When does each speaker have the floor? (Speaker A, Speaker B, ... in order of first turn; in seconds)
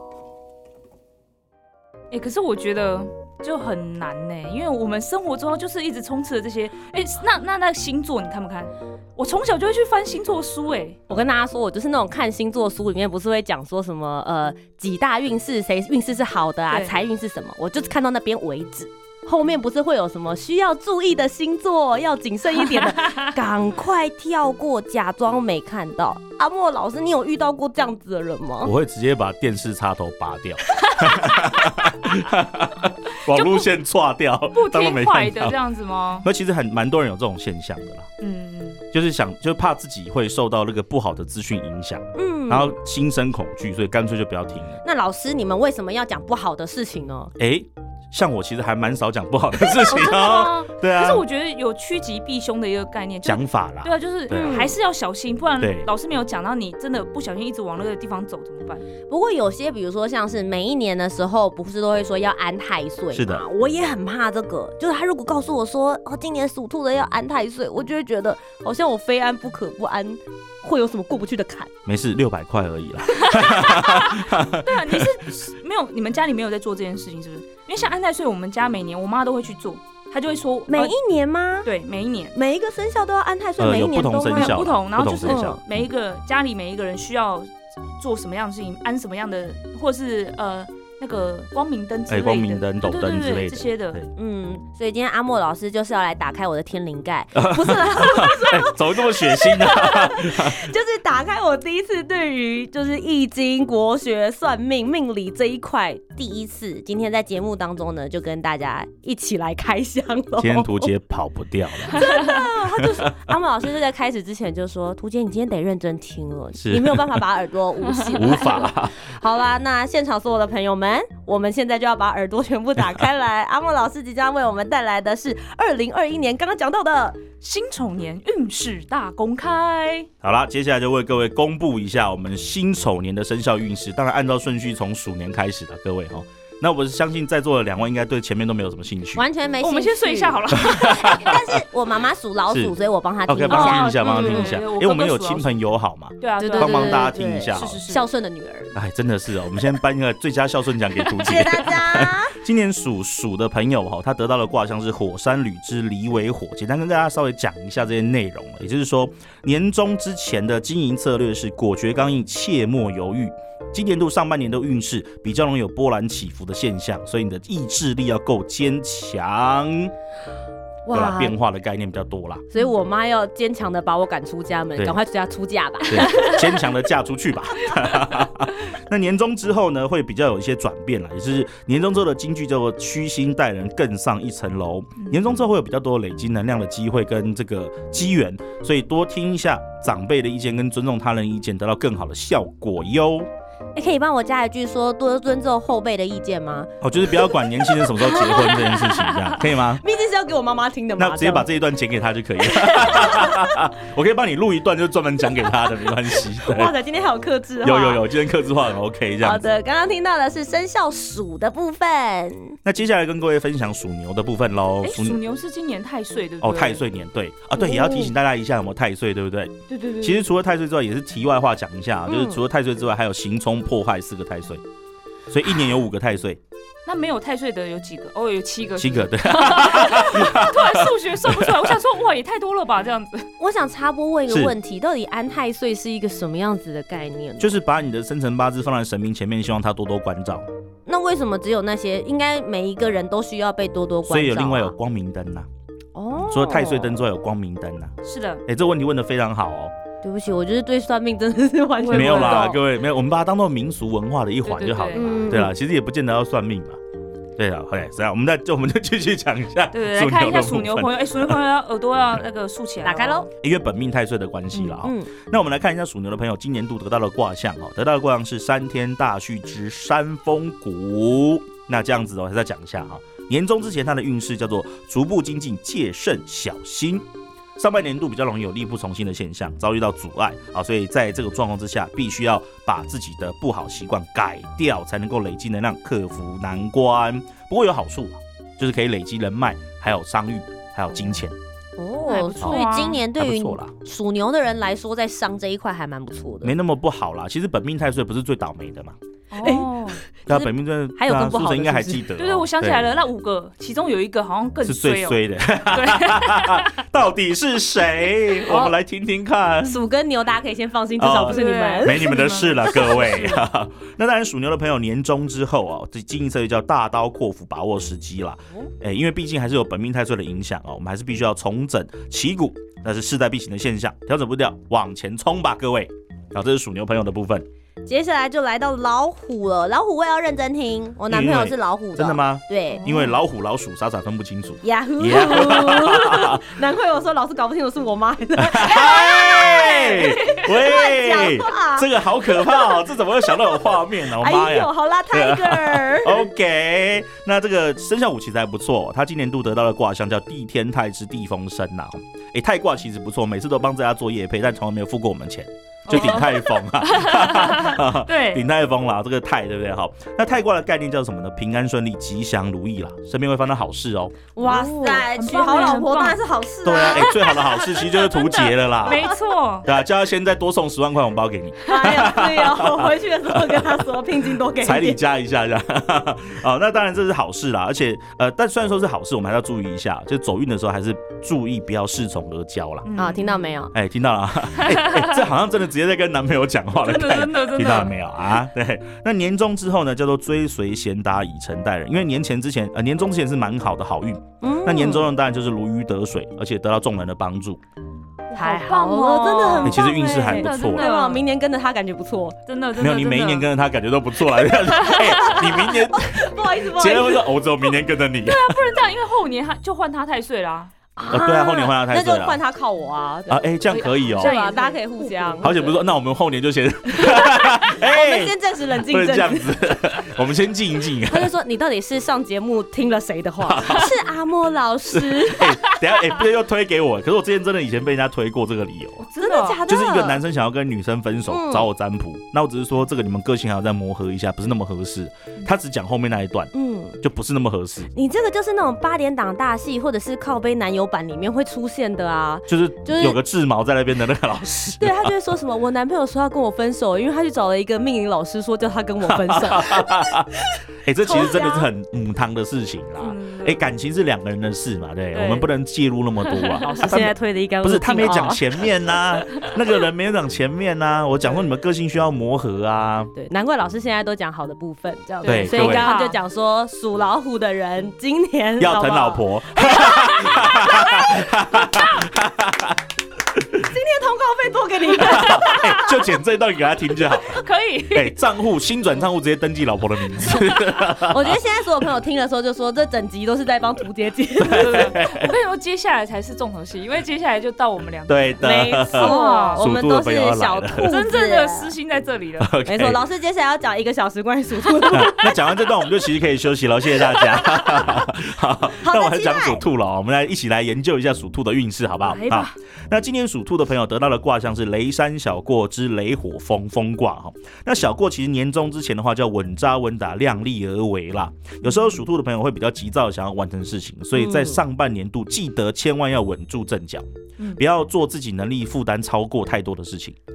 Speaker A: 2.1-11.0, 16.7-16.9, 33.3-33.7, 34.5-36.3, 38.2-38.8, 49.6-58.8, 73.2-81.0, 81.6-82.3, 84.3-94.0, 127.4-130.1, 139.6-141.3, 143.5-145.5, 146.2-148.1, 198.5-199.3, 214.8-216.8, 219.8-220.1, 226.8-233.3, 248.0-248.4, 251.8-252.6, 254.4-255.3, 259.7-263.3, 292.1-293.0, 299.3-300.0, 302.1-306.8, 311.3-313.4, 355.9-358.4, 364.4-366.2, 366.8-369.7, 382.8-383.4, 384.6-385.1, 386.7-387.9, 398.3-401.2, 402.5-403.5, 404.7-405.5, 408.2-410.7, 413.7-415.7, 429.1-429.6, 453.0-453.6, 455.1-455.5, 456.3-456.8, 465.2-466.2, 469.7-471.1, 477.2-478.1, 484.5-489.6, 490.8-492.5, 502.1-502.5
Speaker B: 11.1-28.7, 42.1-42.7, 44.8-47.3, 54.3-54.7, 59.1-71.7, 80.7-81.7, 82.3-84.7, 85.2-85.6, 94.2-110.9, 111.9-127.2, 139.1-144.6, 146.4-148.8, 151.2-152.3, 170.8-171.3, 172.5-176.4, 193.8-198.7, 199.8-201.5, 202.5-203.4, 206.4-208.1, 209.2-212.6, 217.5-218.1, 222.1-222.4, 233.4-237.5, 240.8-244.7, 245.9-247.0, 250.0-252.6, 254.9-255.5, 262.8-263.3, 264.7-265.1, 291.8-296.5, 299.4-302.1, 309.6-312.3, 327.9-332.9, 334.6-346.3, 364.4-367.7, 371.6-375.0, 382.9-383.7, 394.4-395.1, 398.3-402.4, 405.2-407.3, 411.0-413.5, 414.1-415.5, 416.9-419.5, 421.1-425.5, 429.1-430.2, 431.3-431.7, 436.5-437.0, 437.9-443.2, 444.8-450.5, 451.1-451.6, 456.6-458.6, 463.1-471.0, 473.6-475.9, 480.8-485.0, 488.4-491.7, 492.6-495.4, 498.8-499.6, 514.1-514.6
Speaker C: 28.6-35.5, 36.2-38.1, 38.9-44.8, 47.4-51.2, 53.2-54.7, 55.6-55.9, 63.1-63.4, 71.8-75.2, 83.6-85.6, 92.1-94.1, 97.3-100.7, 110.4-113.3, 116.6-117.2, 118.0-119.0, 130.2-139.2, 140.6-141.6, 142.5-142.7, 143.3-147.8, 148.7-169.9, 170.9-172.4, 175.9-193.3, 196.8-199.8, 201.0-206.7, 207.6-209.5, 212.6-215.2, 216.4-224.6, 225.3-226.4, 228.8-231.8, 234.3-234.5, 237.4-240.4, 244.1-245.5, 246.2-247.9, 248.5-249.7, 251.9-256.8, 257.4-261.4, 263.4-277.1, 277.6-291.4, 292.4-293.7, 296.4-298.9, 300.3-302.8, 304.6-309.8, 311.0-327.4, 331.1-336.5, 338.4-364.2, 366.6-382.9, 383.7-397.6, 399.6-400.9, 402.8-408.6, 411.1-412.4, 413.3-414.3, 415.4-421.3, 423.4-423.9, 424.9-429.1, 429.6-437.9, 442.5-445.1, 449.1-450.3, 450.8-463.1, 465.2-465.9, 468.6-472.8, 473.3-473.6, 475.0-481.4, 484.4-485.3, 488.1-490.9, 492.4-493.0, 494.9-520.2